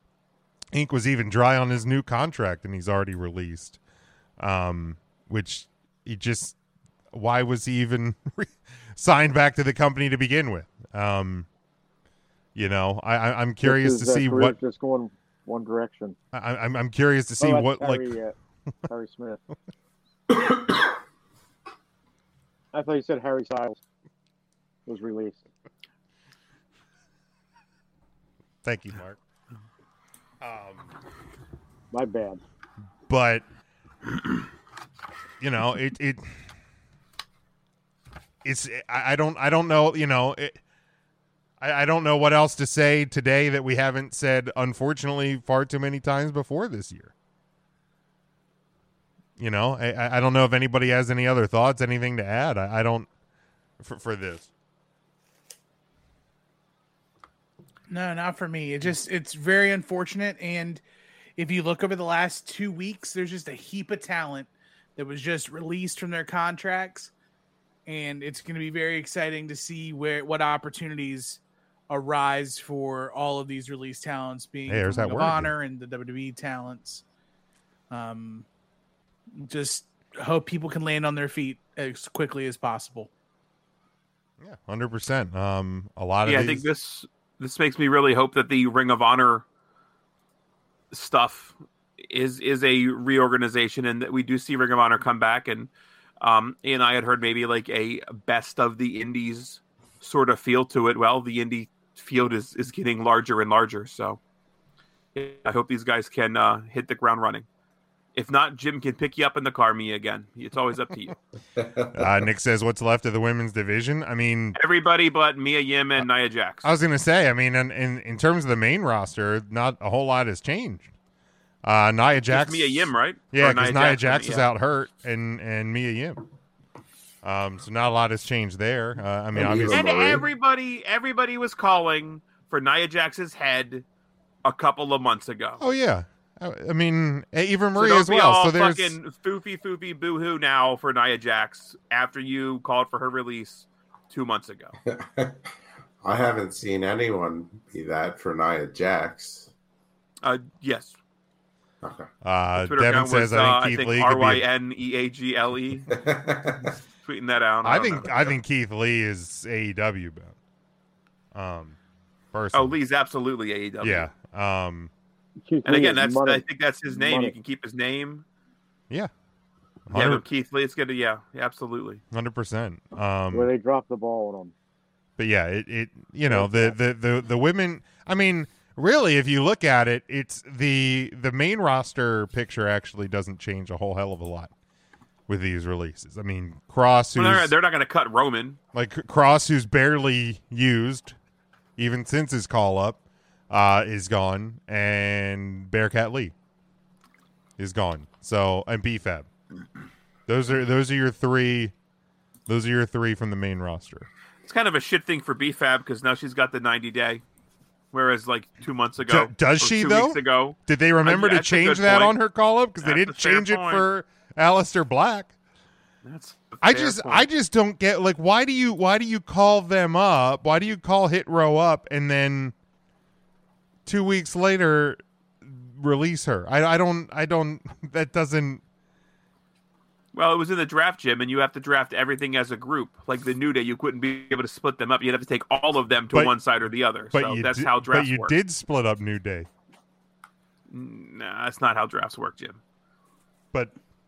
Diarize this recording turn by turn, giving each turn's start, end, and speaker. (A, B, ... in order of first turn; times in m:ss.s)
0:00.7-0:03.8 A
0:04.4-0:06.6 A
0:07.1-0:11.5 A
0:12.5-0:14.6 A
0:13.6-0:16.2 B
0:16.3-0:18.1 A
0:17.4-0:18.3 B
0:18.9-0:19.4 B
0:22.7-0:23.8 B
0:24.8-0:25.4 B
0:28.6-0:29.2 A
0:30.4-0:30.9 A
0:31.9-0:32.4 B
0:33.1-0:33.4 A
0:35.4-0:36.2 A
0:38.4-0:40.6 A
0:41.6-0:47.1 A
0:49.4-0:53.1 A
0:53.8-0:54.5 A
0:57.9-1:00.8 C
1:01.4-1:07.1 C
1:07.8-1:17.0 C
1:14.7-1:15.5 A
1:17.9-1:18.4 C
1:19.4-1:23.1 C
1:24.4-1:26.6 A
1:26.2-1:29.4 D
1:30.9-1:44.2 D
1:45.1-1:47.4 D
1:48.1-1:51.2 D
1:51.6-1:52.1 E
1:51.9-1:54.6 A
1:54.5-1:56.6 D
1:56.6-2:00.9 A
2:01.6-2:06.2 A
2:02.3-2:04.5 D
2:07.2-2:09.9 A
2:09.3-2:10.2 E
2:09.7-2:13.8 D
2:14.4-2:15.6 D
2:15.6-2:19.0 A
2:17.8-2:24.7 D
2:24.8-2:25.4 E
2:26.0-2:29.5 E
2:30.2-2:31.0 D
2:31.8-2:32.1 E
2:32.2-2:34.4 A
2:32.6-2:35.9 D
2:35.9-2:36.7 E
2:37.0-2:38.3 D
2:37.6-2:40.4 A
2:41.3-2:41.8 A
2:42.3-2:42.8 A
2:42.5-2:44.1 D
2:43.8-2:44.9 A
2:45.4-2:47.3 B
2:45.6-2:48.2 D
2:49.9-2:50.2 A
2:49.9-2:52.0 D
2:52.1-2:53.5 A
2:53.3-2:54.5 B
2:55.2-3:04.5 A
2:56.3-2:56.7 B
3:05.3-3:07.5 A
3:07.1-3:08.6 D
3:08.7-3:11.2 A
3:11.8-3:16.3 A
3:17.6-3:19.3 A
3:20.3-3:21.7 A
3:22.5-3:24.1 A
3:24.4-3:27.2 D
3:27.9-3:32.2 D
3:29.1-3:35.3 A
3:32.8-3:33.8 D
3:36.0-3:37.3 D
3:36.6-3:42.5 A
3:43.8-3:48.6 A
3:50.1-3:58.4 D
3:56.1-3:56.4 A
3:57.1-3:59.5 A
4:00.7-4:02.6 D